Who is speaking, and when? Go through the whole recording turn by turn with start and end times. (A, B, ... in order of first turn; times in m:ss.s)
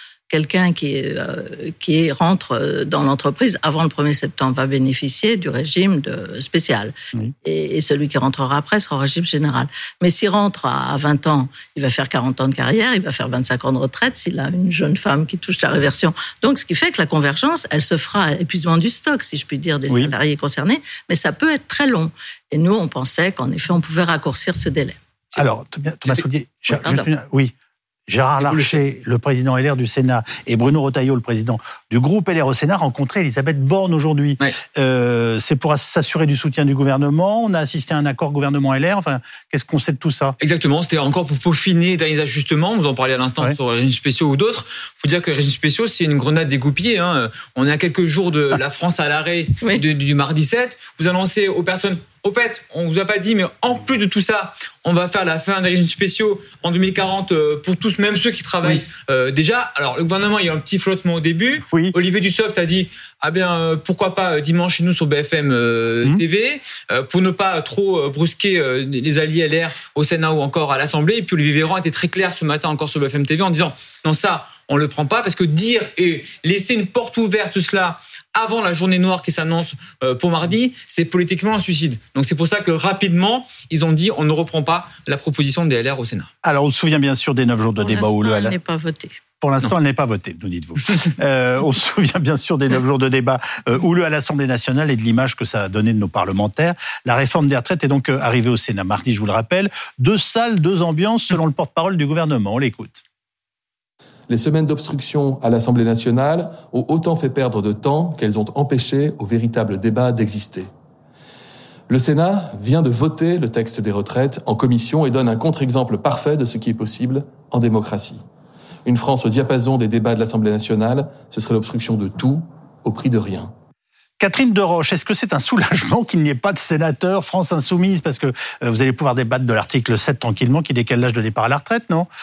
0:00.3-0:25.0 A
0:25.4-0:27.5 B
0:26.7-0:27.1 A
0:28.1-0:40.4 B
0:28.4-0:28.8 C
0:40.4-1:26.3 C
1:01.7-1:02.0 B
1:26.4-1:28.6 B
1:27.8-1:29.2 A
1:29.4-1:43.0 B
1:44.3-1:50.7 D
1:51.9-1:58.2 D
1:58.8-2:03.5 D
2:04.2-2:12.1 B